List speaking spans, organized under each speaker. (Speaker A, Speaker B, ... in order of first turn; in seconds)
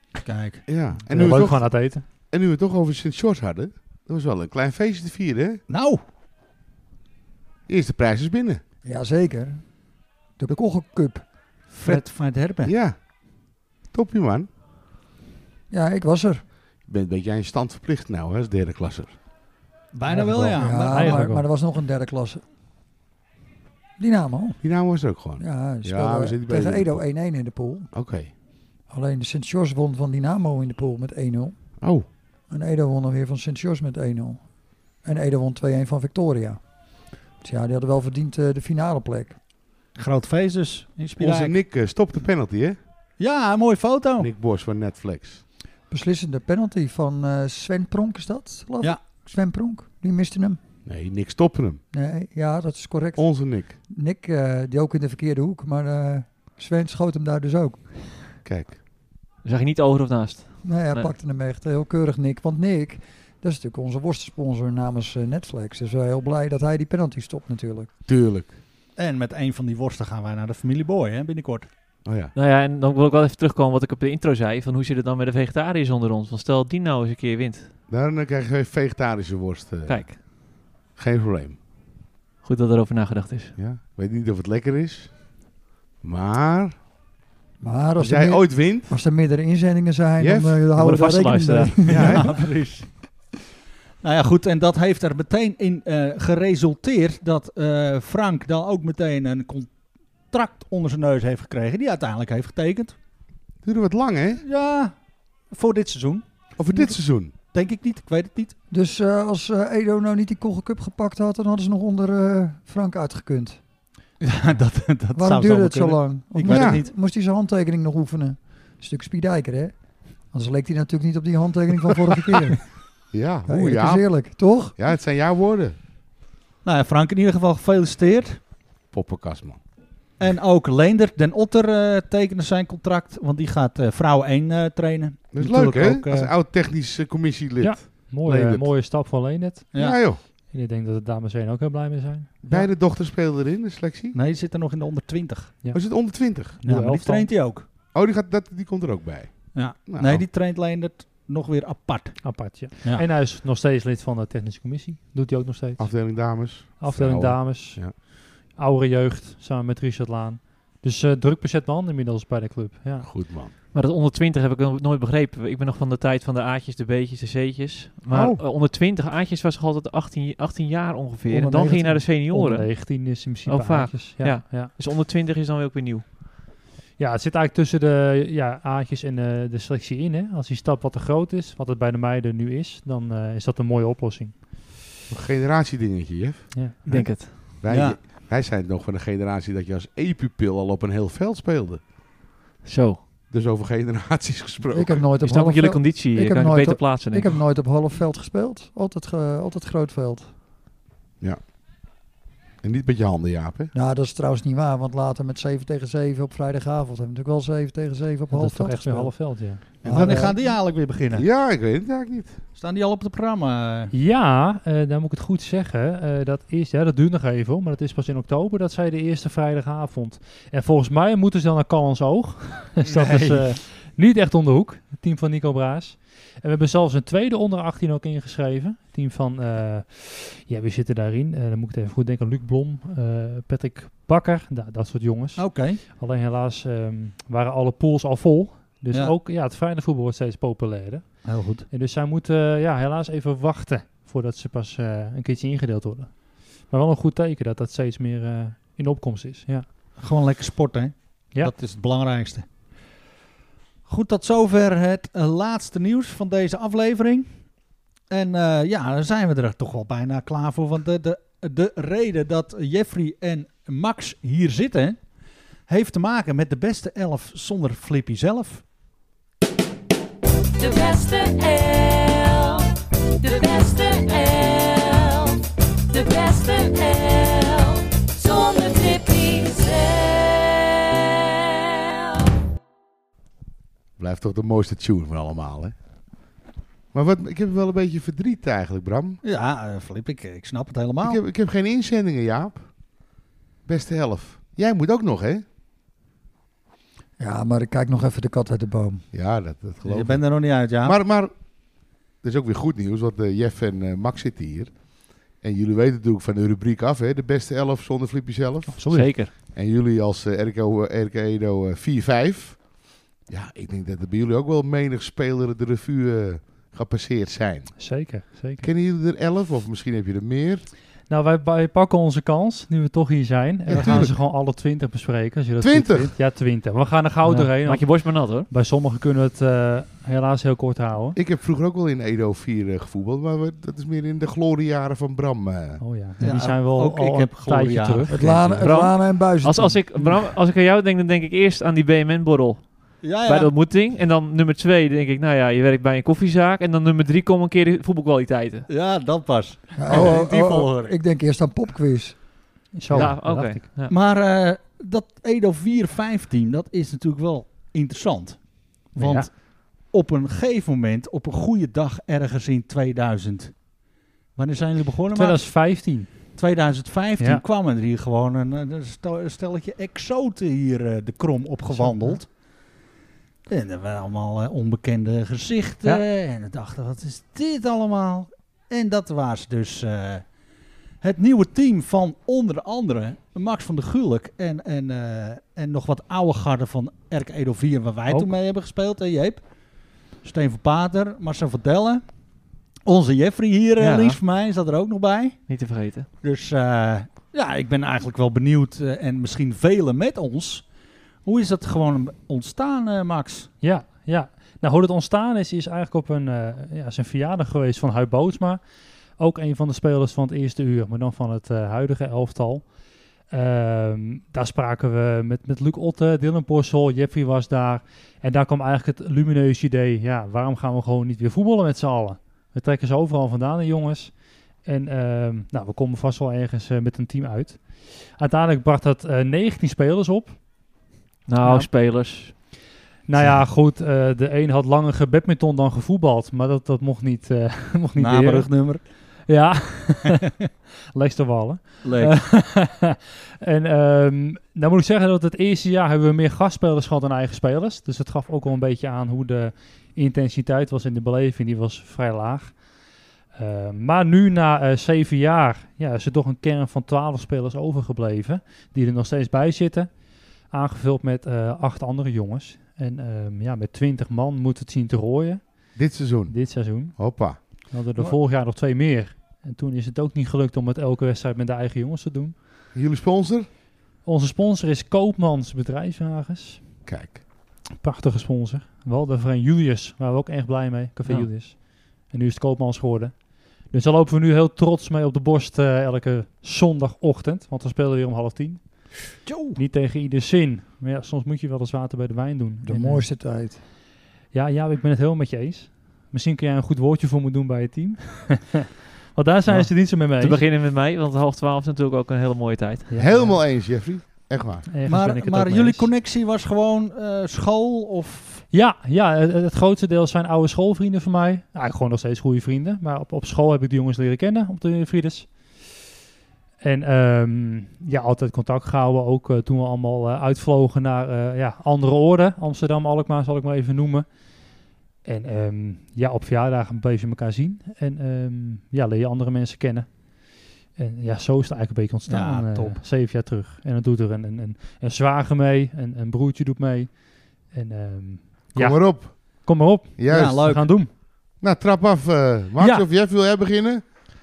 Speaker A: 0.2-0.7, 5.7-6.0, 11.7-12.7, 19.9-21.2, 39.9-41.5, 43.2-44.3, 69.0-71.7, 91.9-92.9, 94.0-102.9, 104.4-108.5, 114.2-116.9, 126.6-128.4, 130.2-136.3, 139.7-140.0, 144.1-145.5, 146.6-147.7, 149.5-153.1, 186.9-188.0, 209.8-211.2, 212.6-213.9, 222.8-223.6, 235.3-235.8, 238.9-239.2, 241.2-241.7, 250.0-252.5, 253.8-257.6, 258.1-268.6, 289.2-291.2, 299.8-301.0, 336.2-338.2, 343.0-343.5, 348.7-350.9, 353.9-372.3, 373.5-380.3, 381.0-392.0, 392.8-395.5, 396.2-400.7, 401.2-403.5, 437.9-438.8, 441.8-442.4, 489.2-489.6, 504.9-508.4, 532.0-532.8, 540.1-540.8
Speaker B: 0.7-5.6, 7.7-8.6, 12.6-14.5, 16.8-19.2, 24.6-27.0, 27.9-28.3, 31.8-32.1, 41.2-42.8, 44.2-45.4, 50.9-51.8, 53.2-53.8, 58.4-58.8, 68.1-68.5, 72.0-72.3, 77.9-81.6, 83.5-85.4, 86.0-86.8, 88.0-88.9, 90.2-90.6, 91.9-92.3, 103.6-104.4, 106.5-107.3, 116.5-116.8, 123.1-125.8, 128.9-129.6, 135.3-138.7, 139.8-140.2, 142.4-144.2, 145.7-146.6, 147.9-150.2, 155.8-157.9, 163.0-163.5, 168.1-168.4, 185.1-187.1, 187.6-191.9, 193.3-195.0, 202.6-203.7, 209.8-212.4, 284.0-285.7, 286.9-289.2, 291.0-292.9, 293.6-295.4, 299.1-320.7, 323.7-324.1, 325.6-326.1, 331.1-335.8, 465.7-467.4, 472.7-473.5, 476.9-477.2, 503.0-504.7, 538.5-544.0
Speaker C: 1.1-2.0, 20.2-21.4, 137.6-142.7, 145.6-147.3, 152.2-163.3, 171.3-174.7, 177.0-184.6, 186.5-186.9, 208.3-209.7, 213.9-249.7, 308.7-309.1, 317.8-318.7, 321.1-331.2, 335.8-338.6, 352.7-353.6, 358.9-359.3, 365.1-366.1, 371.7-372.2, 403.6-408.6, 409.2-412.7, 413.3-430.8, 431.4-431.7, 433.1-440.2, 440.9-452.7, 453.3-472.4, 474.0-476.7, 477.8-493.1, 494.3-500.4, 502.9-503.4, 504.7-505.9, 508.5-515.6, 516.6-540.9, 542.6-542.8
Speaker D: 1.1-1.4, 8.8-11.3, 15.7-16.4, 20.1-22.4, 24.0-24.9, 25.4-27.9, 28.9-31.8, 32.5-36.9, 37.4-39.4, 45.9-50.6, 51.9-58.1, 60.6-67.9, 87.6-92.3, 108.7-113.6, 115.1-122.7, 123.5-124.7, 171.3-172.0, 194.7-200.3, 203.7-210.4, 297.2-299.0, 338.1-339.9, 349.8-352.2, 492.6-493.6
Speaker E: 59.4-61.1, 72.3-77.7, 79.8-80.2, 82.4-83.5, 90.7-92.1, 163.7-176.2, 186.8-187.5, 192.6-193.0, 195.2-197.4, 308.9-309.3, 327.2-328.5, 338.5-348.7, 352.9-353.9, 393.8-394.2, 395.5-396.1, 431.2-432.4, 481.1-481.3, 499.5-502.9
Speaker F: 270.6-280.6